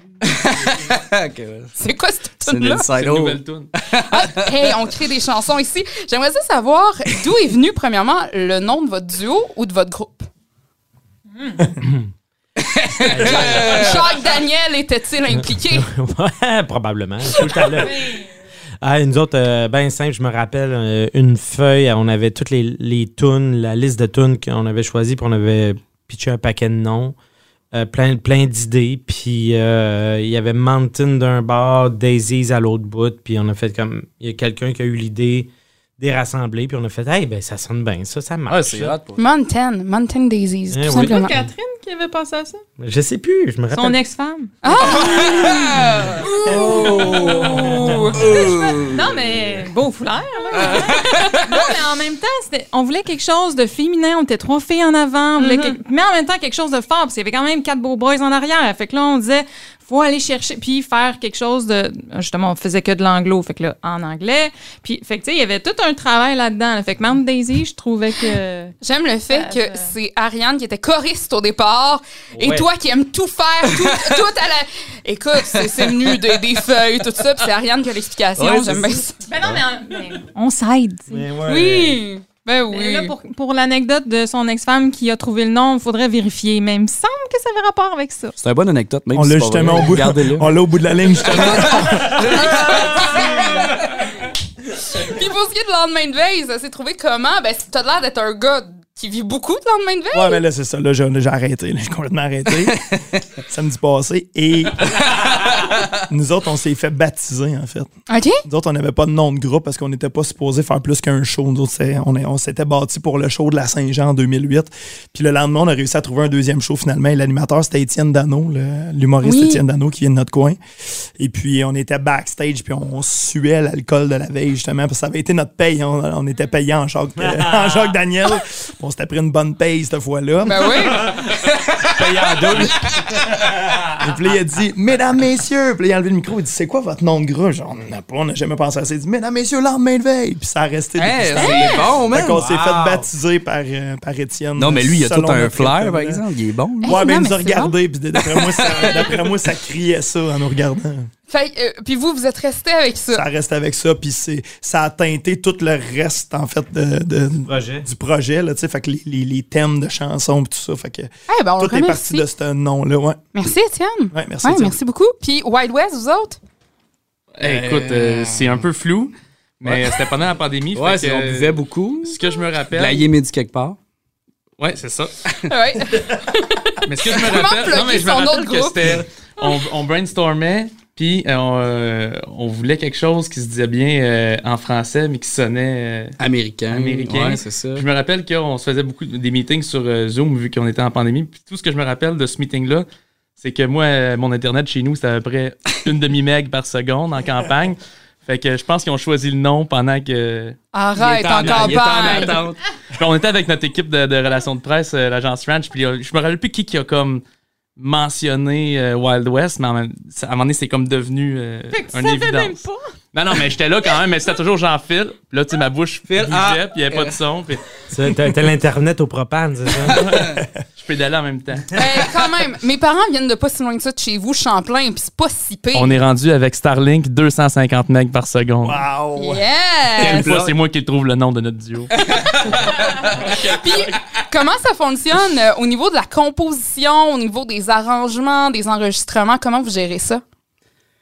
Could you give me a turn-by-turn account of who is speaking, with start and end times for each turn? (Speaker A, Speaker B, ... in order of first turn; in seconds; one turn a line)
Speaker A: 0.2-1.7
Speaker B: 1.8-2.9
Speaker A: 2.5-4.7
Speaker C: 2.9-3.7
Speaker B: 4.0-10.3
Speaker D: 11.8-12.1
Speaker A: 12.6-14.0
Speaker D: 13.1-14.0
Speaker B: 13.1-15.9
Speaker D: 15.3-18.1
Speaker D: 18.8-27.2
Speaker D: 27.7-39.0
Speaker A: 38.5-39.2
Speaker B: 39.2-41.4
Speaker D: 40.7-41.2
Speaker E: 40.9-42.6
Speaker D: 42.8-44.0
Speaker E: 43.7-44.9
Speaker B: 44.6-48.3
Speaker A: 46.5-49.1
Speaker E: 48.5-68.8
Speaker B: 55.4-55.8
Speaker B: 68.8-79.2
Speaker E: 69.3-69.9
Speaker D: 72.3-72.7
Speaker A: 78.4-79.6
Speaker E: 79.2-81.2
Speaker D: 81.1-82.0
Speaker B: 81.4-83.1
Speaker E: 82.7-88.3
Speaker A: 88.4-90.6
Speaker F: 89.1-92.5
Speaker B: 91.2-93.9
Speaker A: 91.3-93.0
Speaker B: 94.7-100.4
Speaker F: 100.1-102.8
Speaker F: 103.5-105.2
Speaker F: 106.0-107.9
Speaker B: 108.1-108.4
Speaker F: 108.5-120.6
Speaker B: 119.2-119.6
Speaker F: 121.2-131.2
Speaker D: 127.2-128.0
Speaker B: 130.4-131.0
Speaker D: 130.8-131.2
Speaker D: 131.9-133.5
Speaker F: 132.0-132.8
Speaker F: 133.9-146.2
Speaker A: 141.0-142.4
Speaker B: 141.4-141.8
Speaker D: 142.2-143.1
Speaker A: 144.6-147.0
Speaker B: 146.8-147.7
Speaker F: 146.8-151.1
Speaker A: 148.3-149.1
Speaker B: 151.3-153.2
Speaker F: 153.1-163.2
Speaker D: 157.4-157.9
Speaker B: 161.3-162.3
Speaker B: 163.3-166.4
Speaker F: 164.1-164.8
Speaker C: 167.3-173.1
Speaker A: 167.4-168.6
Speaker A: 169.6-170.0
Speaker A: 170.8-172.2
Speaker A: 172.7-173.8
Speaker C: 174.6-175.1
Speaker B: 175.5-179.6
Speaker C: 176.8-186.2
Speaker A: 186.2-187.8
Speaker C: 186.7-192.9
Speaker C: 193.4-200.6
Speaker B: 200.7-202.4
Speaker A: 201.0-202.6
Speaker C: 201.4-202.0
Speaker C: 202.9-207.2
Speaker C: 207.8-212.6
Speaker E: 211.7-212.9
Speaker C: 213.1-217.6
Speaker A: 216.1-217.2
Speaker D: 217.9-220.0
Speaker C: 219.9-221.8
Speaker A: 220.1-220.4
Speaker B: 221.7-226.0
Speaker C: 225.7-228.8
Speaker F: 228.6-229.4
Speaker B: 229.2-230.3
Speaker C: 230.0-233.6
Speaker A: 230.0-230.5
Speaker B: 233.1-240.2